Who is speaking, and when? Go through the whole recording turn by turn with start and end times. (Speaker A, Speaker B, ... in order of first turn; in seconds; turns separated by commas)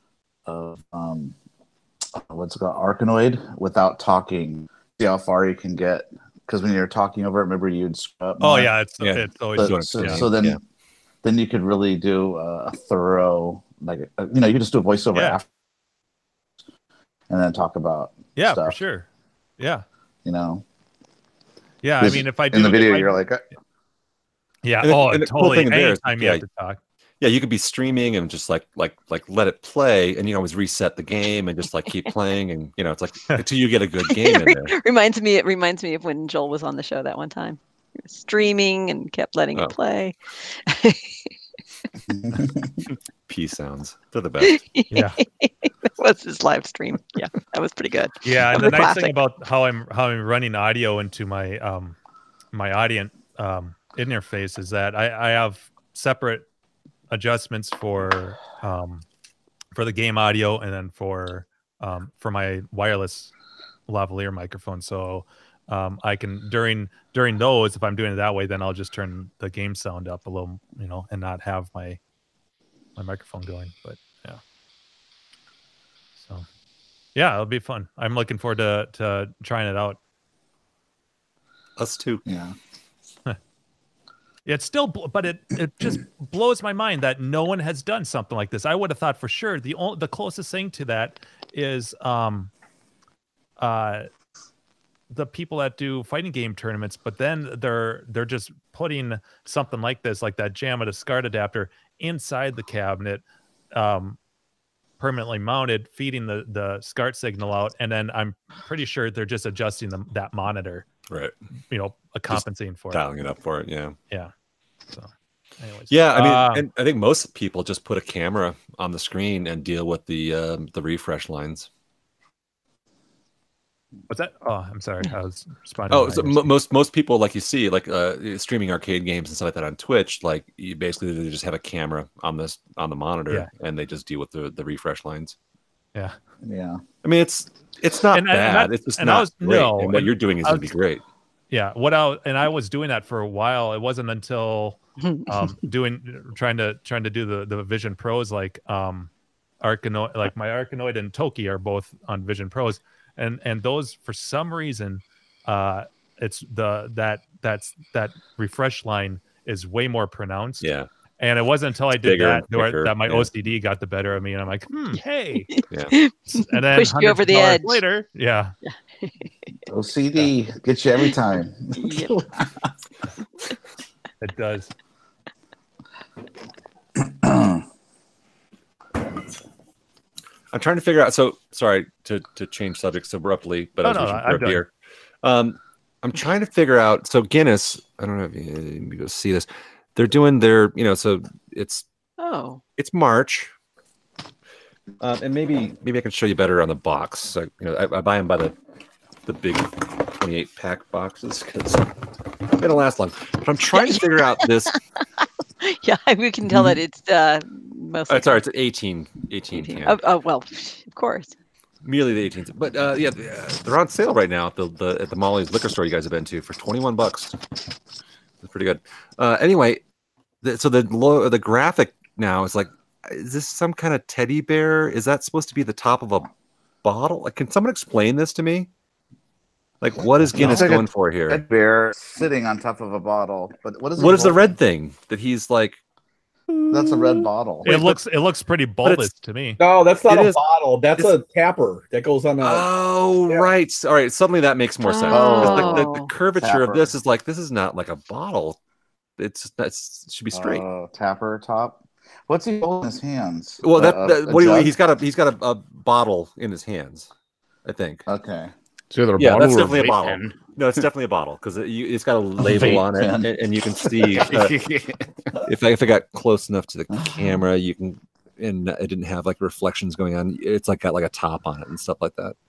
Speaker A: 0.5-1.3, Speaker A: 2.2-8.7, Speaker B: 8.4-10.3, Speaker C: 9.0-10.6, Speaker A: 9.6-10.6, Speaker A: 11.2-15.4, Speaker B: 15.1-15.4, Speaker A: 17.3-18.7, Speaker B: 18.4-19.1, Speaker B: 19.6-19.8, Speaker A: 20.2-20.6, Speaker B: 21.8-23.1, Speaker A: 22.0-23.4, Speaker B: 24.6-26.8, Speaker C: 24.8-26.4, Speaker C: 27.2-34.7, Speaker D: 34.1-41.3, Speaker A: 42.1-42.7, Speaker C: 43.3-44.6, Speaker D: 44.4-49.1, Speaker B: 44.9-45.2, Speaker B: 48.2-52.0, Speaker B: 52.5-56.5, Speaker B: 57.1-59.0, Speaker B: 59.7-63.3, Speaker B: 63.9-72.0, Speaker B: 73.0-74.4, Speaker B: 76.2-76.4, Speaker B: 77.1-80.0, Speaker C: 81.8-82.2, Speaker A: 82.2-82.5, Speaker B: 84.5-92.5, Speaker B: 93.6-94.1, Speaker B: 95.1-104.2, Speaker B: 105.0-110.8, Speaker C: 111.1-111.3, Speaker B: 111.7-113.0, Speaker C: 112.3-114.0, Speaker B: 114.9-116.6, Speaker C: 115.9-121.7, Speaker B: 124.1-126.5, Speaker C: 125.9-135.3, Speaker A: 136.4-136.8, Speaker C: 137.0-141.0, Speaker B: 138.1-140.7, Speaker B: 141.5-149.1, Speaker D: 145.0-145.3, Speaker B: 149.6-160.7, Speaker C: 160.6-160.9, Speaker B: 161.2-165.5, Speaker C: 161.9-163.3, Speaker D: 165.5-167.8, Speaker B: 166.3-168.5, Speaker D: 168.6-169.1, Speaker A: 169.7-172.7, Speaker D: 171.8-172.1, Speaker B: 174.2-174.7, Speaker A: 177.0-177.6, Speaker C: 180.5-184.7, Speaker B: 183.8-184.6, Speaker C: 185.2-191.8, Speaker D: 192.2-192.6, Speaker C: 192.8-193.5, Speaker C: 195.0-198.5, Speaker C: 199.2-201.9, Speaker C: 202.6-204.8, Speaker D: 203.7-204.5, Speaker D: 205.6-208.4, Speaker C: 208.1-210.0, Speaker D: 209.6-211.3, Speaker C: 211.8-217.4, Speaker C: 218.4-219.8, Speaker C: 220.4-226.3, Speaker C: 226.8-228.7, Speaker C: 229.8-231.4, Speaker A: 230.2-234.5, Speaker C: 234.0-235.8, Speaker C: 236.5-238.0, Speaker A: 236.7-237.7, Speaker B: 237.6-239.6, Speaker C: 238.8-239.1, Speaker E: 239.6-242.7, Speaker C: 240.1-240.4, Speaker C: 242.4-248.6, Speaker D: 244.8-246.1, Speaker A: 245.1-246.9, Speaker C: 249.2-250.6, Speaker A: 250.3-254.7, Speaker C: 253.6-257.1, Speaker C: 257.6-258.1, Speaker A: 258.1-258.5, Speaker F: 258.9-260.4, Speaker C: 259.1-264.6, Speaker A: 262.4-263.3, Speaker F: 264.1-265.1, Speaker C: 265.4-272.4, Speaker A: 266.9-267.3